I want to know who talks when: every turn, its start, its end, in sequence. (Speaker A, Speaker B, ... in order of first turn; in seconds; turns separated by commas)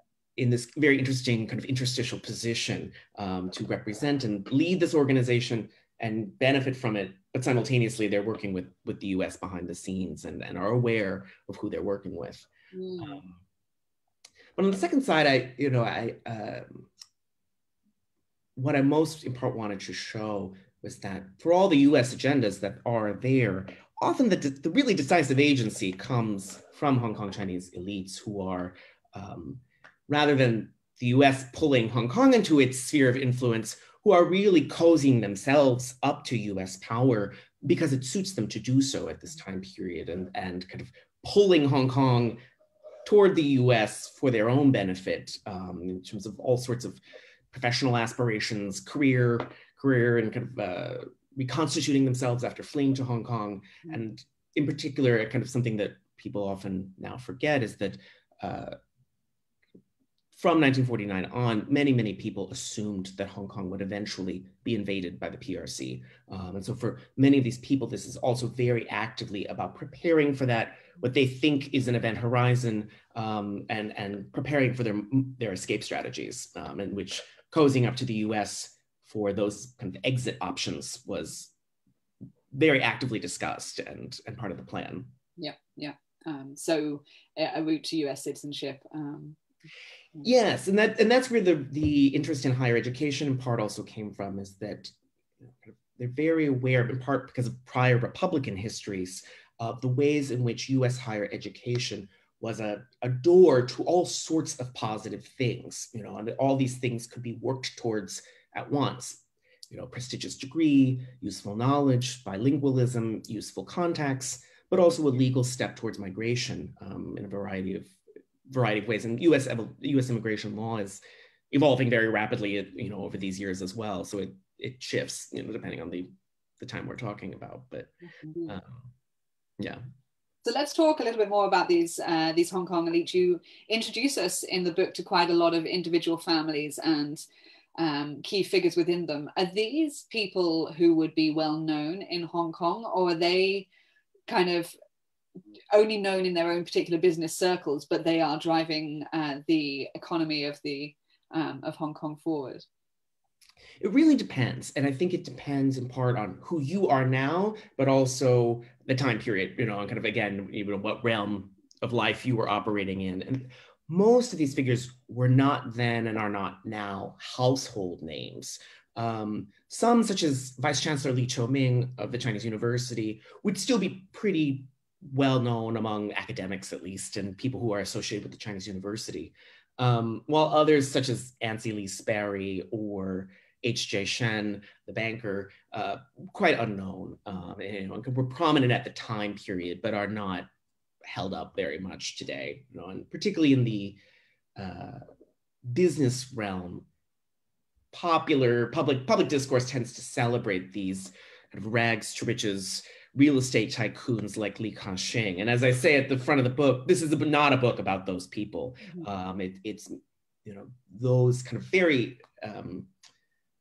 Speaker A: 0.4-12.5, Speaker B: 12.7-13.2, Speaker A: 13.0-13.4, Speaker A: 14.6-16.9, Speaker A: 18.6-42.4, Speaker A: 43.0-47.0, Speaker A: 47.5-58.8, Speaker A: 60.3-81.5, Speaker A: 82.5-85.1, Speaker B: 85.4-89.4, Speaker A: 90.2-118.0, Speaker A: 118.5-127.9, Speaker B: 128.2-128.6, Speaker A: 128.5-128.9, Speaker B: 130.4-137.2, Speaker B: 137.8-143.7, Speaker B: 144.3-144.7, Speaker B: 145.7-152.7, Speaker A: 153.8-190.5, Speaker A: 191.1-194.0, Speaker A: 194.6-195.0, Speaker A: 195.7-196.9, Speaker A: 197.9-212.9